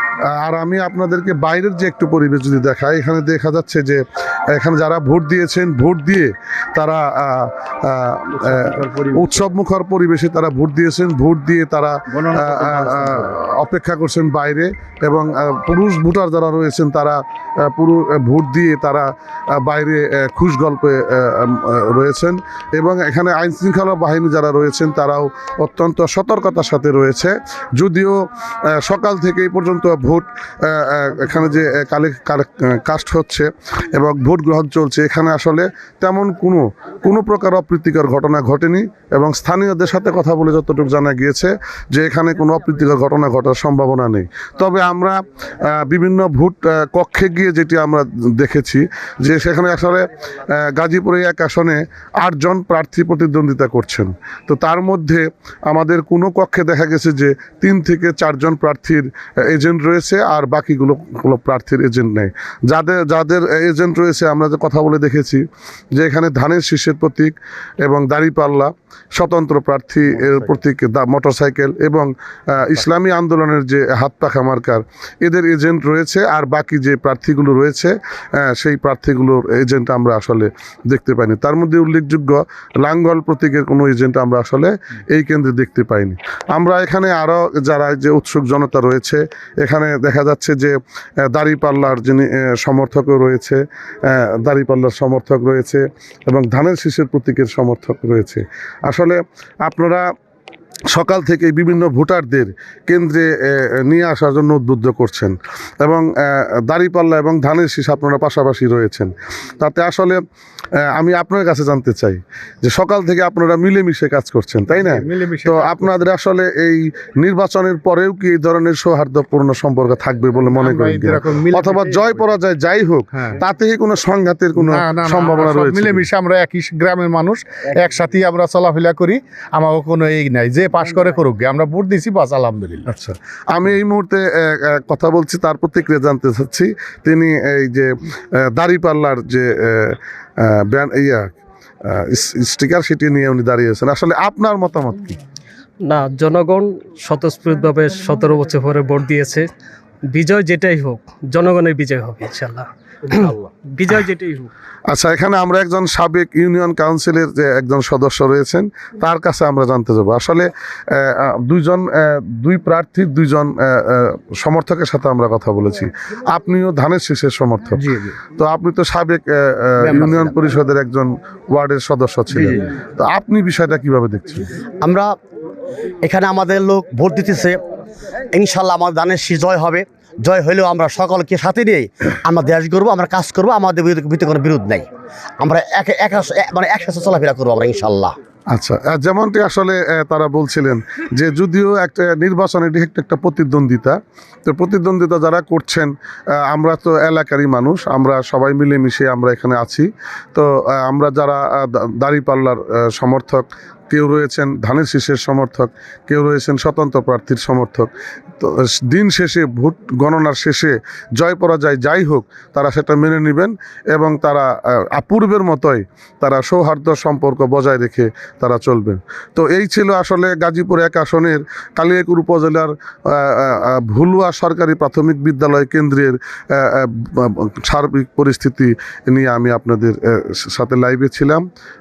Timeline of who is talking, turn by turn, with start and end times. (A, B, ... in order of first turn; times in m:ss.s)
0:00.4-0:04.0 A
0:04.5-0:28.2 A
0:08.4-0:09.4 B
0:12.1-0:13.3 B
0:28.7-1:05.4 A
1:05.9-1:30.7 A
1:10.1-1:10.5 B
1:31.3-1:40.0 A
1:40.9-1:50.2 A
1:50.9-2:06.1 A
1:54.7-1:56.0 B
2:00.4-2:02.2 B
2:03.1-2:03.4 B
2:04.6-2:12.9 B
2:12.9-2:17.9 A
2:18.5-2:21.3 A
2:21.8-2:25.2 A
2:25.8-2:29.5 C
2:30.1-2:34.5 C
2:34.9-2:47.8 A
2:48.4-2:54.5 A
2:54.8-2:55.1 D
2:56.0-2:57.6 D
2:58.3-3:04.9 D
3:05.4-3:08.1 D
3:08.5-3:15.9 A
3:16.5-3:51.4 A